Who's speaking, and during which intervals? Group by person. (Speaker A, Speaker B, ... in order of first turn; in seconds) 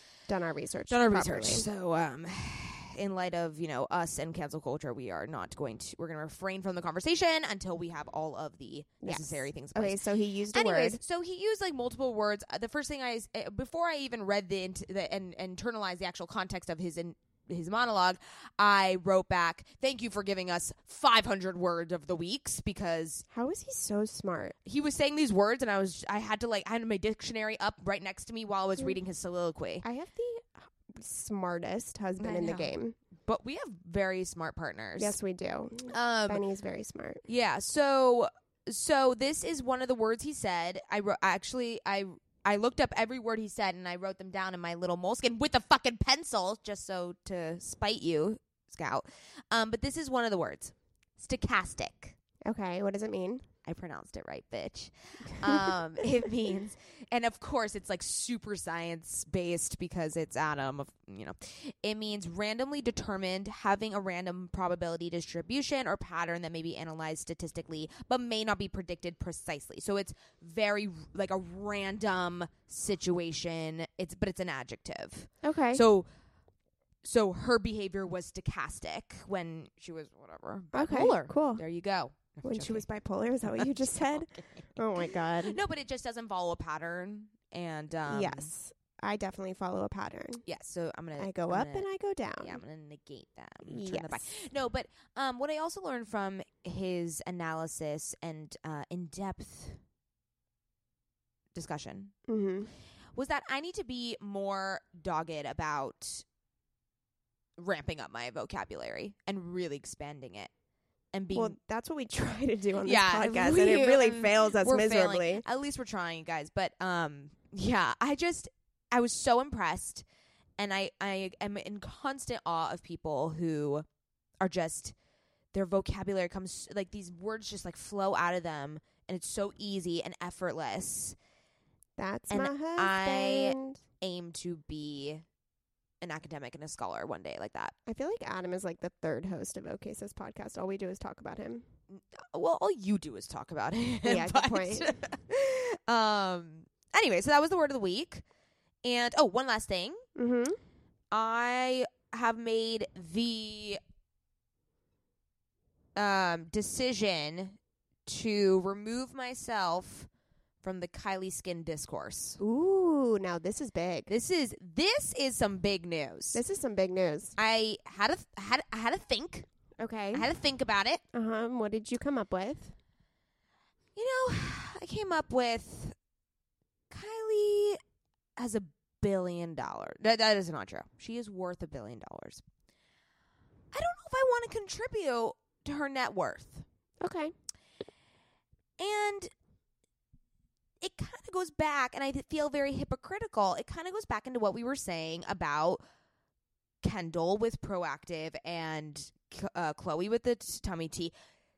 Speaker A: 0.3-1.7, 9.0-11.0, 23.3-24.6, 29.8-33.0, 35.0-37.2, 52.5-53.5, 55.4-55.7, 75.4-75.8, 80.7-81.6, 82.4-85.6, 88.1-90.4, 91.2-92.6, 93.7-94.3, 102.3-102.7, 111.3-115.5, 132.0-133.8, 137.9-141.7, 144.0-145.0, 150.2-150.6, 162.4-164.1, 166.3-167.3, 169.8-170.3, 171.1-172.7, 187.0-187.3
Speaker B: 0.9-10.0, 10.5-23.2, 24.6-29.9, 32.2-32.7, 33.3-35.2, 35.9-36.4, 37.3-52.2, 53.6-76.1, 77.0-82.8, 83.5-84.6, 85.2-88.5, 90.5-91.9, 92.4-99.8, 101.5-102.1, 103.2-106.2, 107.6-110.5, 111.1-111.6, 112.8-120.0, 120.6-123.9, 124.4-125.0, 125.5-131.2, 132.3-135.2, 136.0-137.8, 141.9-148.2, 148.8-150.0, 151.1-153.8, 156.0-160.1, 160.6-162.4, 164.1-166.4, 167.4-169.5, 170.1-171.0, 174.0-176.0, 176.9-177.8, 178.4-182.4, 183.7-186.7, 188.8-189.3, 190.8-195.8, 196.8-201.1